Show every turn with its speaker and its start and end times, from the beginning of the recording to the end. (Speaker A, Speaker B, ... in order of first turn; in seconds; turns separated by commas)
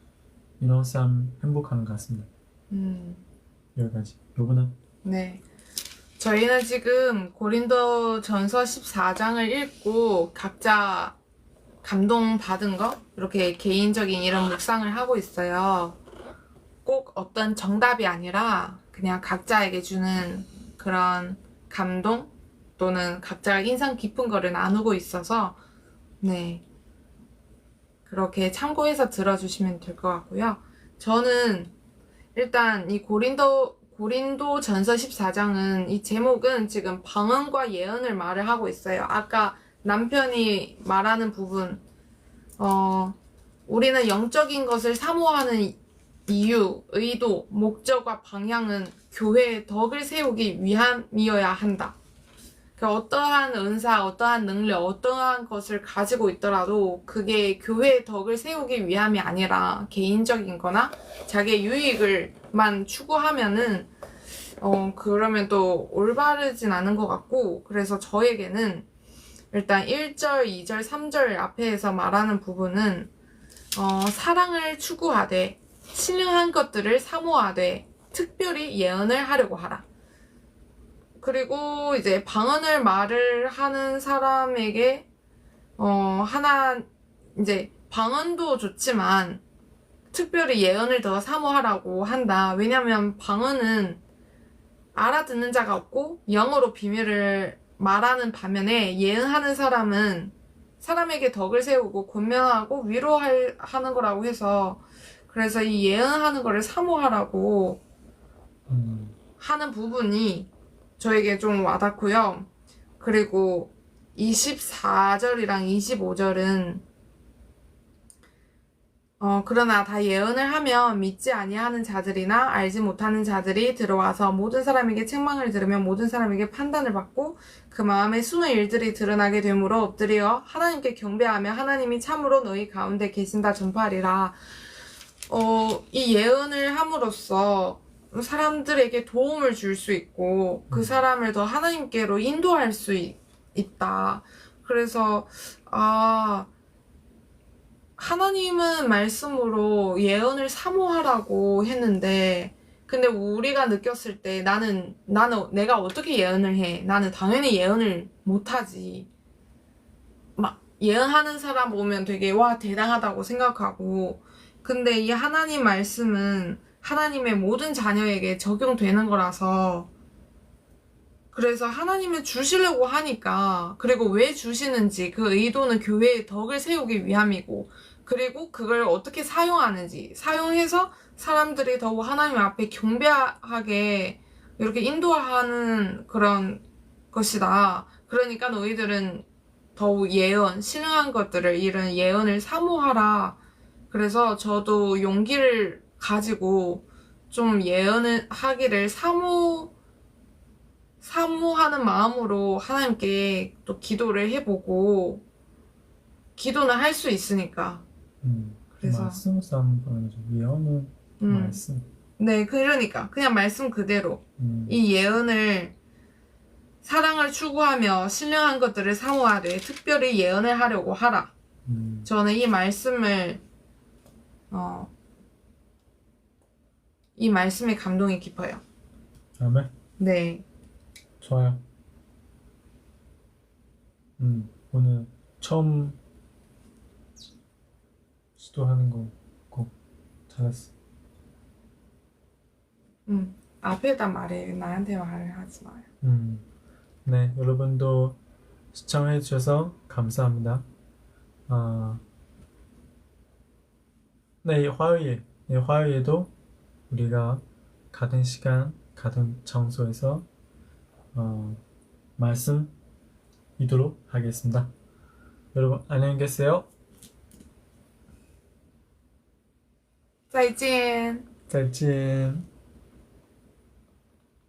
Speaker A: 0.6-2.3, Speaker B: 2.7-3.2, Speaker A: 3.8-4.7, Speaker B: 5.0-5.4, Speaker B: 6.2-11.2, Speaker B: 11.8-16.0, Speaker B: 16.9-25.6, Speaker B: 26.2-26.6, Speaker B: 28.1-31.7, Speaker B: 32.4-41.8, Speaker B: 42.6-52.0, Speaker B: 52.8-63.9, Speaker B: 64.6-68.9, Speaker B: 69.5-73.1, Speaker B: 73.8-79.8, Speaker B: 81.2-85.1, Speaker B: 85.8-89.4, Speaker B: 90.1-94.0, Speaker B: 94.9-107.8, Speaker A: 108.7-109.2, Speaker B: 109.4-112.5, Speaker B: 113.0-116.8, Speaker B: 119.2-134.4, Speaker B: 135.3-146.5, Speaker A: 140.7-141.0, Speaker B: 148.0-159.1, Speaker B: 160.4-169.9, Speaker B: 171.3-189.2, Speaker B: 189.8-193.4, Speaker B: 193.9-199.7, Speaker B: 201.0-205.2, Speaker B: 206.4-207.8, Speaker A: 208.2-211.9, Speaker B: 208.8-209.2, Speaker B: 211.2-211.6, Speaker B: 212.2-215.7, Speaker A: 214.4-214.8, Speaker B: 216.8-221.3, Speaker A: 221.7-222.1, Speaker B: 222.0-223.4, Speaker B: 224.5-224.9, Speaker B: 227.2-228.6, Speaker A: 229.4-229.7, Speaker B: 230.0-230.4, Speaker A: 231.2-231.6, Speaker A: 234.2-236.0, Speaker A: 238.4-239.7, Speaker A: 240.3-240.7, Speaker B: 243.1-245.9, Speaker A: 246.0-246.4, Speaker A: 247.0-248.2, Speaker A: 248.7-250.7, Speaker A: 251.5-252.0, Speaker A: 254.4-256.3, Speaker A: 256.9-260.2, Speaker A: 261.1-261.6, Speaker A: 262.2-262.7, Speaker A: 263.6-264.7, Speaker A: 265.5-266.7, Speaker B: 270.3-271.2, Speaker A: 271.5-272.5